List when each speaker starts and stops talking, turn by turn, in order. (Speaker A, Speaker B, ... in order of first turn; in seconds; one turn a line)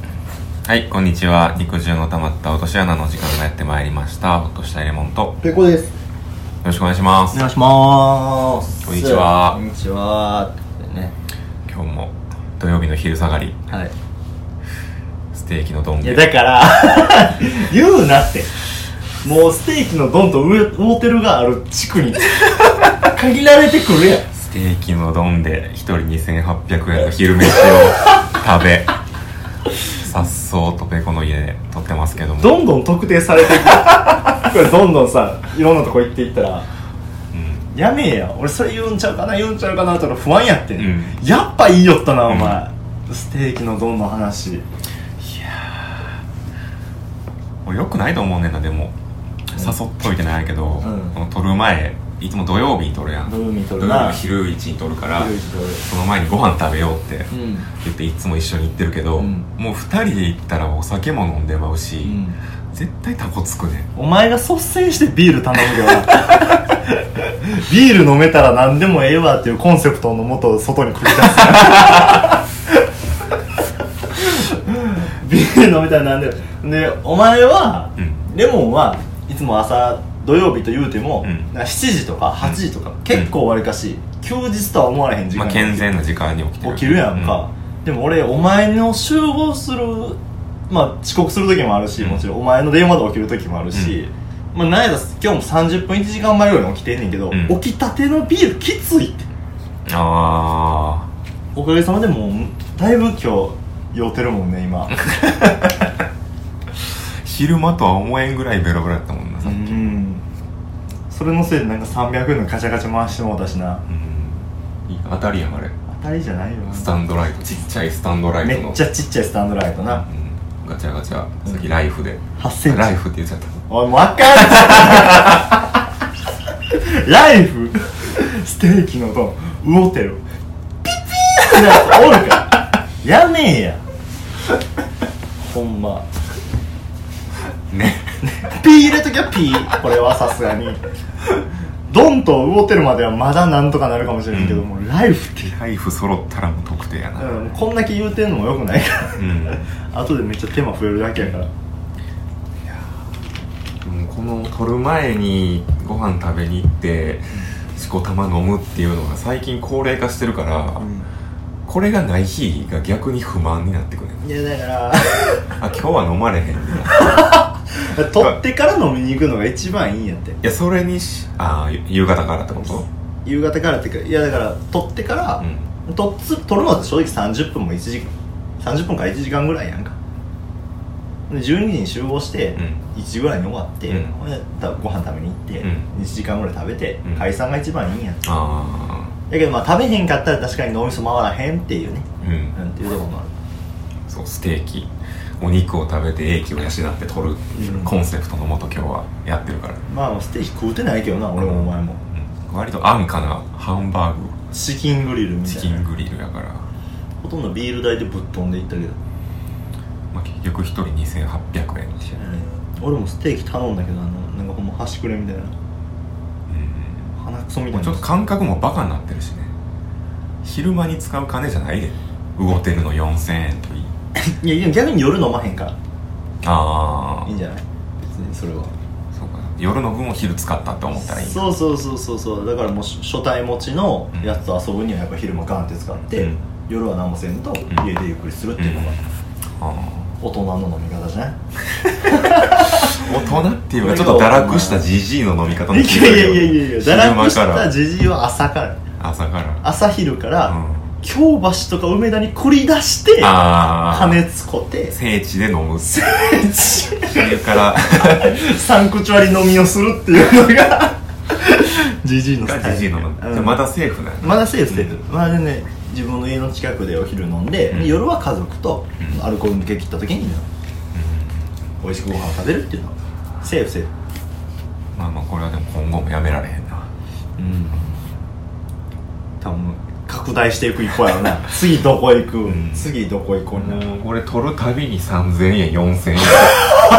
Speaker A: 0.7-5.4
Speaker B: 5.4-6.0
Speaker A: 6.6-7.5
Speaker B: 7.3-11.1
Speaker A: 8.8-9.6
Speaker A: 11.7-13.6
Speaker A: 15.3-16.3
Speaker B: 16.0-18.5
Speaker B: 19.2-24.3
Speaker A: 24.3-28.9
Speaker A: 30.0-32.6
Speaker B: 32.4-36.7
Speaker A: 37.3-37.7
Speaker B: 37.7-44.6
Speaker A: 40.8-41.2
Speaker A: 42.3-42.6
Speaker A: 45.2-46.1
Speaker A: 47.6-48.9
Speaker A: 49.5-55.3
Speaker B: 50.8-51.2
Speaker B: 53.3-54.2
Speaker B: 55.2-55.9
Speaker A: 55.8-63.9
Speaker B: 57.3-57.7
Speaker B: 59.2-59.5
Speaker B: 62.0-62.4
Speaker B: 64.0-72.4
Speaker B: 74.2-86.0
Speaker A: 78.0-78.2
Speaker A: 81.2-81.5
Speaker A: 85.3-87.4
Speaker B: 86.6-99.3
Speaker A: 92.0-92.3
Speaker A: 97.3-97.6
Speaker A: 99.9-101.1
Speaker B: 101.5-105.0
Speaker A: 107.2-110.0
Speaker B: 109.4-110.2
Speaker B: 111.1-113.8
Speaker A: 113.9-115.7
Speaker B: 115.9-116.9
Speaker A: 116.7-118.8
Speaker B: 118.4-120.0
Speaker A: 119.9-123.6
Speaker B: 122.4-123.0
Speaker B: 123.7-125.5
Speaker A: 124.4-125.4
Speaker B: 126.7-130.2
Speaker B: 131.3-133.8
Speaker B: 135.4-136.1
Speaker A: 137.7-138.1
Speaker B: 138.2-140.8
Speaker B: 141.9-145.6
Speaker A: 144.3-144.7
Speaker A: 145.5-147.5
Speaker B: 147.2-151.5
Speaker A: 149.2-149.7
Speaker A: 152.7-153.0
Speaker A: 153.8-160.9
Speaker B: 160.8-161.1
Speaker A: 161.7-164.2
Speaker B: 164.2-165.5
Speaker A: 165.6-167.3
Speaker B: 166.9-170.4
Speaker A: 170.4-172.9
Speaker B: 173.2-179.9
Speaker A: 175.4-175.7
Speaker B: 181.3-188.2
Speaker A: 183.9-184.1
Speaker A: 185.6-185.9
Speaker A: 188.2-189.2
Speaker B: 189.3-193.3
Speaker A: 192.2-192.6
Speaker A: 194.1-199.8
Speaker B: 197.6-197.9
Speaker B: 199.9-202.0
Speaker A: 201.4-204.4
Speaker B: 204.5-205.8
Speaker A: 205.4-206.7
Speaker B: 207.2-209.0
Speaker A: 210.1-212.2
Speaker B: 212.1-215.5
Speaker A: 216.5-217.1
Speaker B: 217.2-218.1
Speaker A: 217.7-219.5
Speaker A: 220.4-223.9
Speaker B: 224.2-225.8
Speaker A: 226.4-227.3
Speaker B: 227.2-228.7
Speaker A: 229.1-231.5
Speaker B: 231.1-239.0
Speaker A: 236.1-236.4
Speaker A: 238.6-240.1
Speaker B: 240.2-241.4
Speaker B: 242.0-243.2
Speaker A: 242.1-247.7
Speaker B: 243.8-244.9
Speaker B: 245.7-248.8
Speaker A: 249.0-249.7
Speaker B: 249.6-255.0
Speaker A: 250.5-251.0
Speaker A: 253.2-254.2
Speaker A: 254.9-256.0
Speaker B: 255.8-257.3
Speaker A: 256.9-258.4
Speaker B: 258.0-263.6
Speaker A: 262.4-265.0
Speaker B: 264.2-270.5
Speaker A: 267.7-268.0
Speaker A: 270.9-271.5
Speaker B: 271.8-273.9
Speaker A: 274.9-276.9
Speaker B: 277.4-278.0
Speaker B: 279.4-283.9
Speaker A: 282.5-282.9
Speaker A: 283.5-286.7